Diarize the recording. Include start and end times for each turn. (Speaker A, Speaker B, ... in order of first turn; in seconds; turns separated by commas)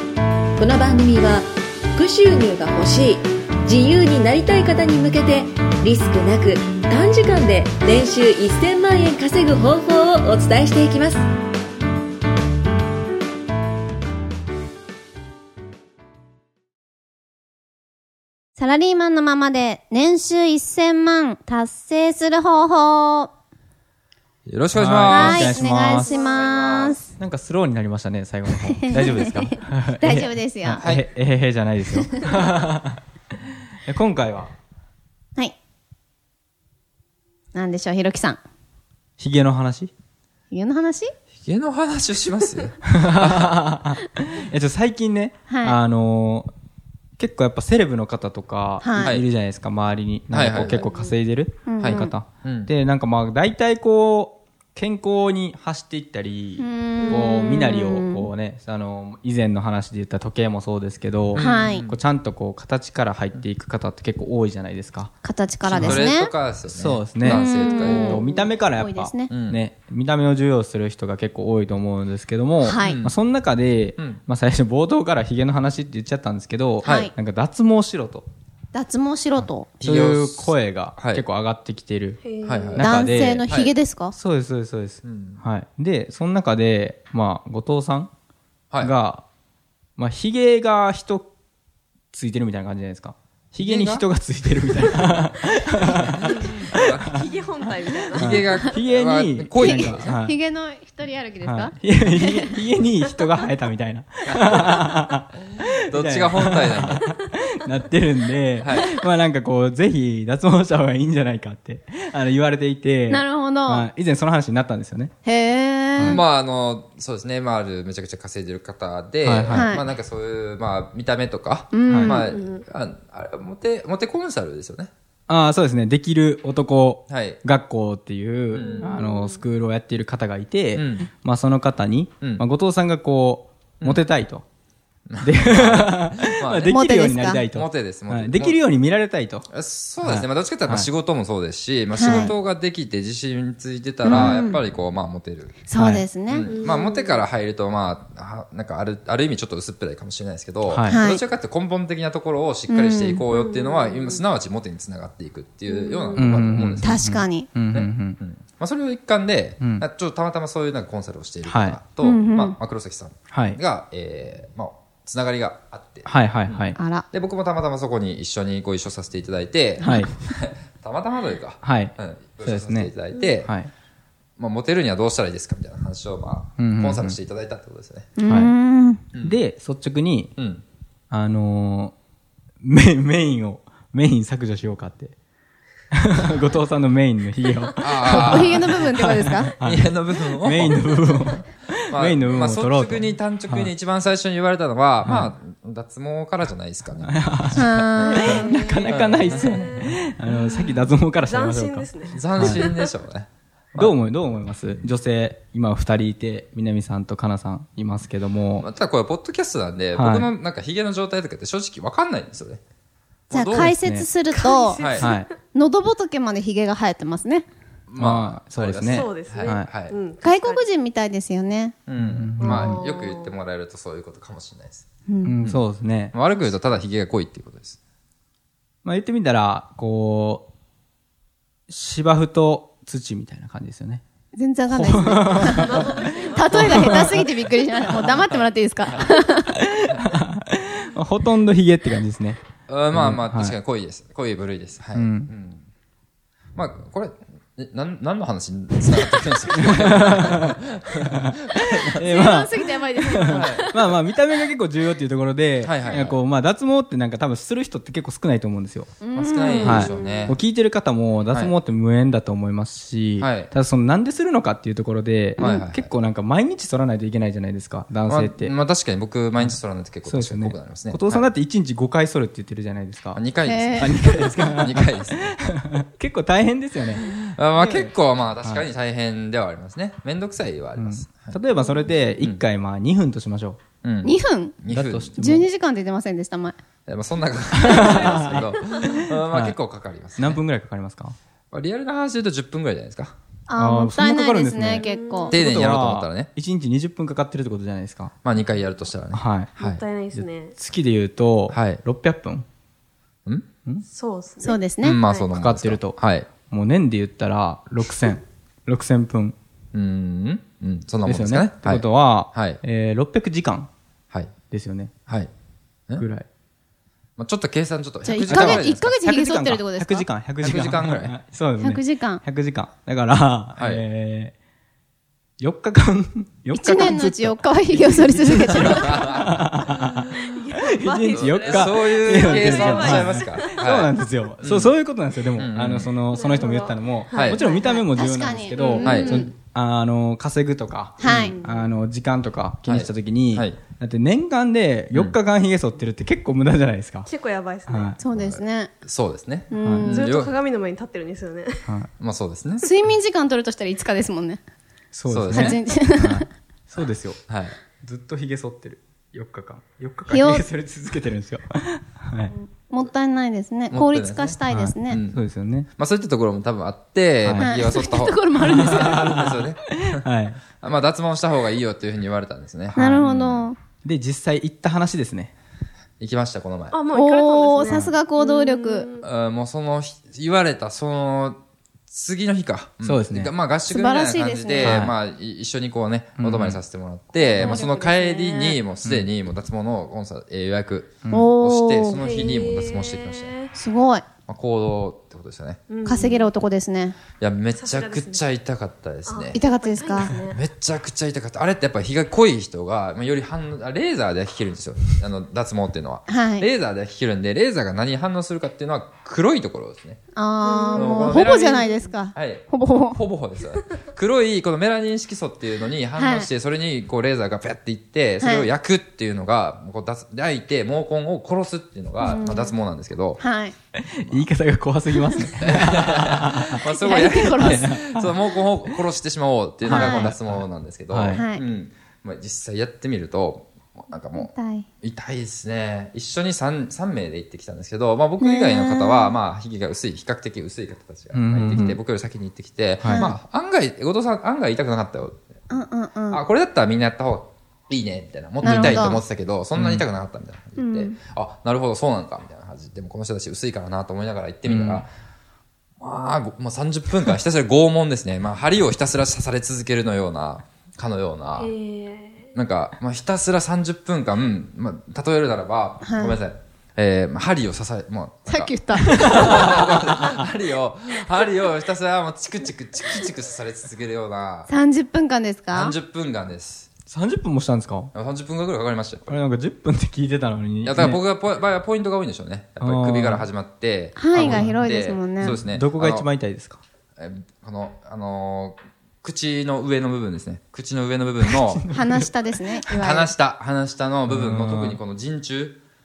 Speaker A: 0.6-11.2, Speaker B: 18.6-23.3, Speaker C: 24.4-27.0, Speaker D: 24.7-26.2, Speaker B: 25.1-27.1, Speaker D: 27.2-33.0, Speaker B: 28.6-30.8, Speaker D: 33.9-34.5, Speaker B: 37.5-38.4, Speaker D: 39.2-39.9, Speaker B: 40.5-41.1, Speaker C: 41.4-43.6, Speaker D: 42.8-46.5, Speaker B: 45.5-45.8, Speaker D: 47.2-65.1, Speaker B: 48.8-49.1, Speaker C: 49.0-49.2, Speaker C: 50.3-50.9, Speaker B: 51.7-52.1, Speaker C: 51.8-52.7, Speaker B: 56.6-58.3, Speaker E: 57.0-57.3, Speaker B: 61.3-61.9, Speaker C: 61.3-62.0, Speaker B: 65.2-66.3, Speaker C: 65.6-68.4, Speaker D: 65.8-66.1, Speaker D: 66.7-78.3, Speaker B: 67.2-69.3, Speaker C: 69.3-69.6, Speaker B: 72.6-73.0, Speaker C: 72.8-73.2, Speaker B: 76.8-77.1, Speaker C: 76.8-77.1, Speaker B: 78.7-79.7, Speaker C: 79.8-81.2, Speaker D: 79.8-82.2, Speaker E: 82.2-82.8, Speaker C: 82.4-83.7, Speaker D: 82.8-83.5, Speaker B: 82.8-84.1, Speaker D: 84.1-88.1, Speaker C: 85.0-85.4, Speaker D: 88.8-89.2, Speaker D: 90.0-91.3, Speaker D: 92.1-97.2, Speaker C: 93.6-94.0, Speaker C: 95.8-97.1, Speaker E: 96.3-98.5, Speaker C: 98.1-100.1, Speaker D: 98.2-100.4, Speaker B: 99.6-102.6, Speaker D: 101.4-115.1, Speaker C: 104.3-104.8, Speaker C: 105.9-107.1, Speaker C: 108.6-108.9, Speaker B: 113.1-113.9, Speaker B: 115.2-116.2, Speaker C: 116.0-124.9, Speaker D: 119.2-119.7, Speaker B: 119.5-119.8, Speaker B: 121.7-122.2, Speaker D: 121.9-122.2, Speaker E: 122.2-122.6, Speaker D: 125.3-134.4, Speaker C: 127.1-127.4, Speaker C: 128.5-128.9, Speaker E: 128.6-129.4, Speaker C: 130.7-131.1, Speaker C: 135.1-138.6, Speaker D: 135.2-139.5, Speaker B: 136.7-137.4, Speaker C: 139.5-145.6, Speaker D: 140.0-140.9, Speaker B: 141.9-142.3, Speaker B: 144.0-144.6, Speaker D: 144.1-144.4, Speaker B: 145.7-146.5, Speaker D: 145.7-146.1, Speaker C: 146.3-157.0, Speaker E: 146.5-147.2, Speaker D: 150.7-151.0, Speaker B: 150.9-151.2, Speaker B: 152.7-153.2, Speaker E: 153.3-154.2, Speaker E: 155.7-156.3, Speaker D: 156.2-158.2, Speaker B: 156.8-157.5, Speaker C: 157.7-173.5, Speaker D: 159.6-159.8, Speaker D: 161.4-161.8, Speaker B: 162.0-162.6, Speaker D: 163.3-163.6, Speaker D: 166.1-166.8, Speaker B: 166.8-167.0, Speaker B: 169.8-170.1, Speaker D: 169.8-170.1, Speaker D: 171.6-173.7, Speaker C: 174.4-178.1, Speaker D: 176.6-177.2, Speaker B: 178.2-179.0, Speaker D: 178.3-178.5, Speaker D: 179.2-180.3, Speaker C: 180.4-180.6, Speaker D: 181.1-181.9, Speaker D: 182.6-185.1, Speaker D: 185.9-193.7, Speaker C: 187.8-188.8, Speaker B: 188.2-189.5, Speaker C: 189.6-191.2, Speaker C: 191.9-199.7, Speaker D: 195.0-195.3, Speaker D: 197.0-202.7, Speaker B: 197.5-198.6, Speaker E: 198.0-202.9, Speaker C: 202.1-203.9, Speaker D: 203.8-208.7, Speaker C: 208.6-212.6, Speaker D: 209.9-210.3, Speaker C: 213.3-213.8, Speaker B: 213.3-214.8, Speaker D: 213.7-214.1, Speaker E: 214.4-215.2, Speaker C: 214.7-215.1, Speaker D: 215.0-215.3, Speaker B: 215.5-217.5, Speaker C: 217.9-219.9, Speaker D: 218.0-219.7, Speaker E: 218.9-220.6, Speaker B: 220.2-221.8, Speaker C: 221.9-224.8, Speaker D: 222.0-222.8, Speaker E: 222.4-223.3, Speaker B: 225.1-225.4, Speaker D: 225.2-226.1, Speaker C: 225.4-227.8, Speaker D: 228.8-230.5, Speaker D: 231.7-234.0, Speaker B: 234.3-239.5, Speaker D: 234.7-238.1, Speaker E: 235.5-237.1, Speaker C: 238.9-239.1, Speaker D: 239.6-242.4, Speaker C: 242.7-245.6, Speaker D: 242.9-243.6, Speaker D: 244.9-245.3, Speaker C: 246.6-252.2, Speaker D: 249.6-250.5, Speaker D: 251.1-258.9, Speaker B: 251.9-253.7, Speaker C: 253.3-253.7, Speaker C: 255.6-256.2, Speaker B: 259.0-260.3, Speaker C: 259.1-260.4, Speaker D: 259.6-268.5, Speaker C: 263.2-263.5, Speaker C: 265.4-265.9, Speaker C: 268.1-271.3, Speaker D: 269.4-273.2, Speaker C: 273.1-275.4, Speaker B: 273.4-274.0, Speaker D: 273.8-277.1, Speaker C: 276.9-282.4, Speaker D: 280.8-283.6, Speaker C: 283.8-285.2, Speaker B: 284.0-284.6, Speaker D: 284.7-285.5, Speaker B: 285.1-286.6, Speaker C: 286.9-290.4, Speaker D: 287.5-289.6, Speaker D: 290.1-291.1, Speaker C: 291.5-293.1, Speaker B: 293.5-295.4, Speaker D: 293.6-298.1, Speaker E: 294.8-295.4, Speaker C: 295.3-296.3, Speaker C: 298.2-299.8, Speaker D: 299.1-299.5, Speaker E: 299.6-300.5, Speaker D: 300.1-302.4, Speaker C: 301.5-301.8, Speaker E: 303.9-305.3, Speaker B: 304.4-305.0, Speaker C: 304.8-306.3, Speaker D: 305.3-309.4, Speaker C: 309.7-312.6, Speaker D: 311.0-313.7, Speaker D: 314.5-314.9, Speaker D: 316.0-316.2, Speaker C: 317.2-318.9, Speaker B: 318.0-320.1, Speaker D: 318.3-324.3, Speaker C: 320.4-321.1, Speaker B: 321.6-322.2, Speaker C: 323.6-323.8, Speaker D: 325.4-347.1, Speaker B: 326.5-329.0, Speaker C: 328.5-329.9, Speaker E: 330.1-333.6, Speaker C: 331.1-334.8, Speaker C: 335.3-336.0, Speaker E: 336.1-337.8, Speaker C: 337.1-337.4, Speaker B: 337.5-339.3, Speaker E: 338.5-339.1, Speaker C: 338.8-339.3, Speaker B: 341.0-341.3, Speaker C: 341.0-341.3, Speaker E: 341.1-341.7, Speaker C: 342.6-343.6, Speaker E: 347.1-348.0, Speaker D: 347.7-348.0, Speaker B: 348.0-348.7, Speaker C: 348.1-350.3, Speaker B: 349.5-350.0, Speaker D: 349.5-349.9, Speaker E: 349.8-351.6, Speaker C: 352.0-352.8, Speaker B: 352.6-354.4, Speaker D: 354.9-357.2, Speaker C: 355.1-355.6, Speaker B: 355.3-356.2, Speaker C: 357.3-357.6, Speaker D: 357.8-362.3, Speaker B: 360.1-360.4, Speaker B: 362.3-365.0, Speaker C: 363.7-365.2, Speaker D: 364.5-365.7, Speaker C: 365.8-370.0, Speaker D: 367.2-367.5, Speaker B: 367.4-369.1, Speaker D: 368.4-370.4, Speaker C: 370.6-373.5, Speaker D: 372.7-373.1, Speaker B: 372.8-373.6, Speaker D: 373.8-375.3, Speaker C: 376.0-376.8, Speaker E: 376.7-379.1, Speaker B: 376.9-378.9, Speaker D: 377.6-377.9, Speaker C: 379.0-393.4, Speaker D: 382.8-383.3, Speaker B: 383.7-384.8, Speaker D: 384.6-384.9, Speaker D: 386.2-386.6, Speaker E: 387.1-388.6, Speaker D: 388.8-389.1, Speaker D: 391.0-391.3, Speaker B: 391.1-392.0, Speaker E: 392.0-393.5, Speaker B: 393.5-394.0, Speaker C: 394.3-395.6, Speaker E: 395.7-396.3, Speaker B: 395.8-397.0, Speaker C: 397.2-399.4, Speaker E: 397.5-398.3, Speaker E: 399.1-400.4, Speaker B: 399.3-400.1, Speaker C: 400.3-410.0, Speaker B: 406.1-406.4, Speaker B: 410.1-413.0, Speaker E: 410.4-411.2, Speaker C: 410.7-423.2, Speaker B: 416.0-416.3, Speaker B: 418.2-418.5, Speaker B: 422.0-422.5, Speaker B: 423.2-423.6, Speaker D: 423.8-428.8, Speaker C: 425.4-434.3, Speaker B: 426.8-427.6, Speaker B: 429.6-430.1, Speaker D: 429.6-430.4, Speaker D: 430.9-431.3, Speaker B: 431.1-431.4, Speaker B: 434.1-434.7, Speaker C: 434.8-445.3, Speaker B: 438.2-439.1, Speaker D: 441.1-441.8, Speaker D: 442.8-443.1, Speaker B: 445.5-446.2, Speaker C: 446.1-454.9, Speaker B: 448.4-449.0, Speaker D: 448.5-448.7, Speaker D: 449.6-449.8, Speaker B: 450.6-450.9, Speaker D: 454.4-454.8, Speaker C: 455.8-461.5, Speaker E: 461.4-462.3, Speaker C: 462.3-474.5, Speaker B: 465.8-466.2, Speaker B: 468.3-469.2, Speaker D: 468.9-470.2, Speaker B: 474.5-475.7, Speaker C: 475.5-476.7, Speaker D: 476.9-477.9, Speaker C: 477.9-479.2, Speaker D: 479.1-481.0, Speaker C: 480.6-486.1, Speaker D: 482.6-483.3, Speaker B: 484.0-485.4, Speaker D: 484.1-484.6, Speaker D: 485.2-486.6, Speaker C: 487.0-491.6, Speaker D: 491.2-492.1, Speaker B: 491.7-493.1, Speaker C: 492.8-495.6, Speaker D: 494.1-494.8